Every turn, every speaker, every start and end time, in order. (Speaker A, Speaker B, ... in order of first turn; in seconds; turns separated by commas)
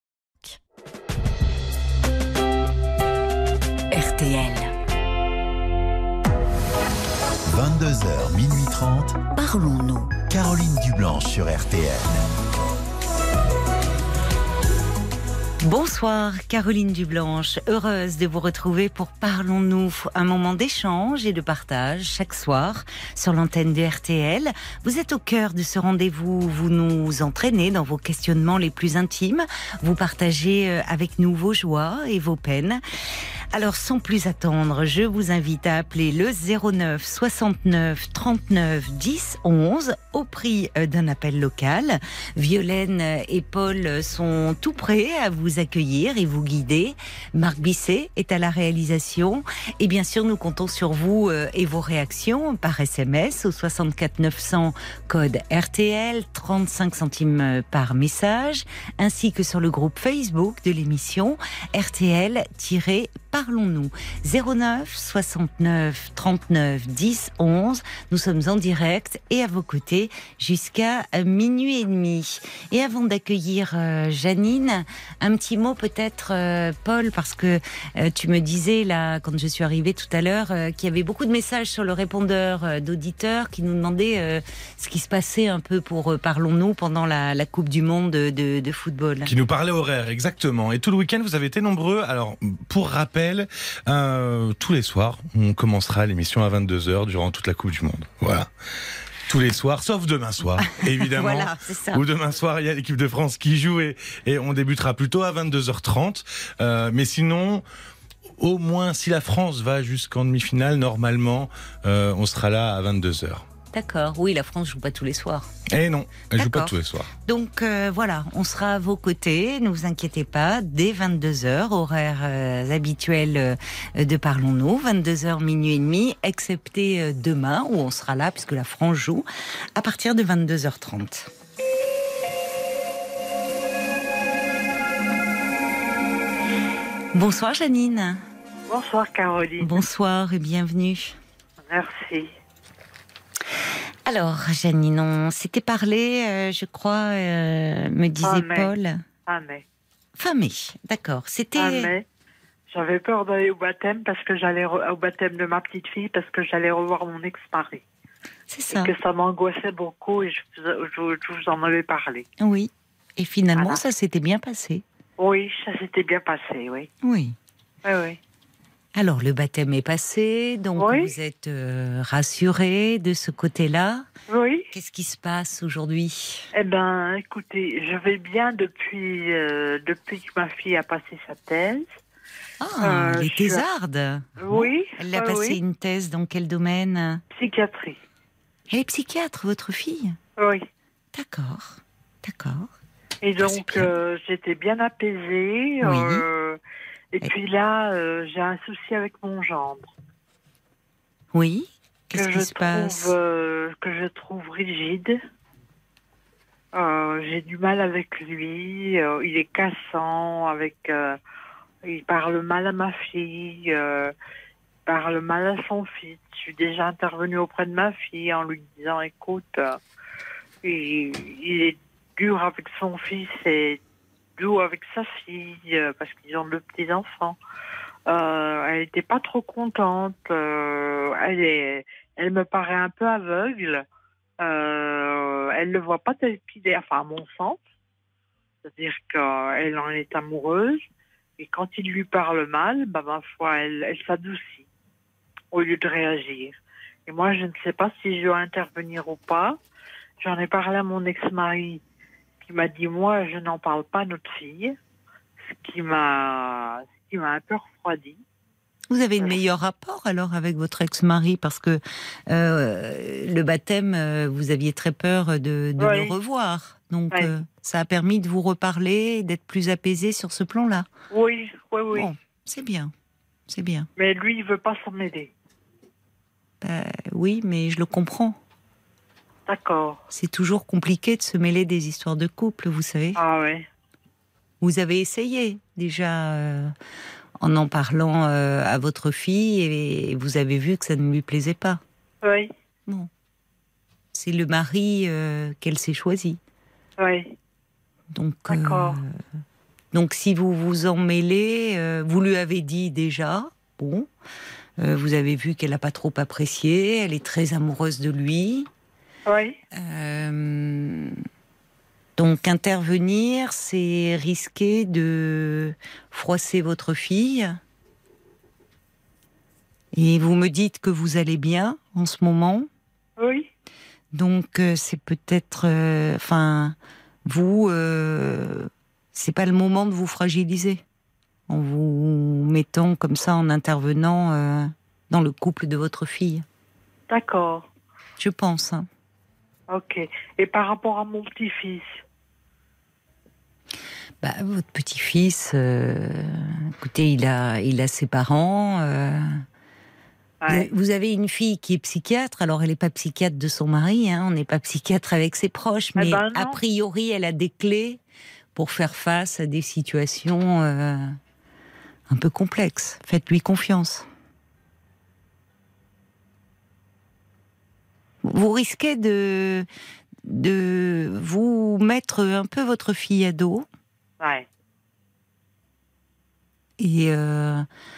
Speaker A: 3.9-4.7, Speaker B: 7.5-9.2, Speaker A: 9.3-10.1, Speaker B: 10.2-12.2, Speaker A: 15.6-32.8, Speaker A: 33.5-89.3, Speaker C: 89.2-98.5, Speaker C: 99.3-107.6, Speaker A: 100.7-102.0, Speaker C: 108.4-113.5, Speaker A: 113.7-115.5, Speaker C: 115.7-117.1, Speaker A: 116.3-116.8, Speaker A: 117.3-131.3, Speaker A: 137.1-138.2, Speaker D: 138.7-139.8, Speaker A: 139.6-141.2, Speaker D: 141.6-142.3, Speaker A: 144.1-149.0, Speaker D: 148.2-148.7, Speaker D: 149.3-149.6, Speaker A: 150.2-151.9, Speaker D: 151.6-152.1, Speaker D: 152.7-157.8, Speaker A: 158.5-158.9, Speaker D: 158.7-162.3, Speaker A: 162.4-164.8, Speaker D: 163.6-163.8, Speaker D: 165.2-166.9, Speaker A: 167.0-167.4, Speaker D: 167.8-168.2, Speaker A: 168.9-174.1, Speaker D: 170.8-171.1, Speaker D: 174.3-174.7, Speaker A: 174.7-176.5, Speaker D: 176.5-181.9, Speaker A: 182.6-187.2, Speaker D: 182.8-183.6, Speaker D: 184.4-185.6, Speaker D: 187.3-188.0, Speaker A: 188.7-190.2, Speaker D: 190.4-190.7, Speaker A: 191.1-192.7, Speaker D: 193.2-196.6, Speaker A: 193.4-193.9, Speaker A: 195.8-196.2, Speaker D: 197.1-199.9, Speaker A: 201.3-203.2, Speaker D: 202.1-205.2, Speaker D: 206.7-211.2, Speaker D: 211.8-214.1, Speaker D: 214.9-219.8, Speaker D: 220.6-223.8, Speaker D: 224.4-227.4, Speaker D: 228.1-233.8, Speaker D: 234.4-237.6, Speaker D: 238.6-240.8, Speaker D: 241.4-244.7, Speaker D: 245.5-249.6, Speaker D: 250.2-251.8, Speaker D: 252.4-254.8, Speaker D: 255.5-258.2, Speaker A: 258.9-270.9, Speaker D: 265.8-266.1, Speaker D: 271.1-272.1, Speaker A: 271.9-272.9, Speaker A: 273.5-273.9, Speaker D: 274.0-275.3, Speaker A: 276.6-278.4, Speaker D: 279.5-280.0, Speaker A: 280.1-283.2, Speaker D: 283.2-283.7, Speaker A: 284.6-286.7, Speaker A: 287.4-291.8, Speaker D: 292.2-292.5, Speaker A: 294.1-296.4, Speaker D: 297.0-297.3, Speaker A: 298.1-299.1, Speaker D: 298.5-299.0, Speaker A: 299.9-304.1, Speaker A: 304.8-308.7, Speaker D: 309.3-309.6, Speaker A: 309.7-311.2, Speaker A: 312.2-317.6, Speaker A: 319.9-322.7, Speaker D: 323.2-323.5, Speaker A: 324.1-330.8, Speaker A: 331.5-336.4, Speaker D: 337.1-337.7, Speaker A: 338.2-338.9, Speaker D: 339.7-342.0, Speaker A: 344.2-349.4, Speaker D: 350.4-350.7, Speaker A: 350.5-358.0, Speaker D: 356.0-356.6, Speaker A: 358.6-361.2, Speaker A: 362.1-364.1, Speaker A: 368.2-369.7, Speaker A: 370.2-373.7, Speaker D: 374.2-374.5, Speaker A: 376.8-377.7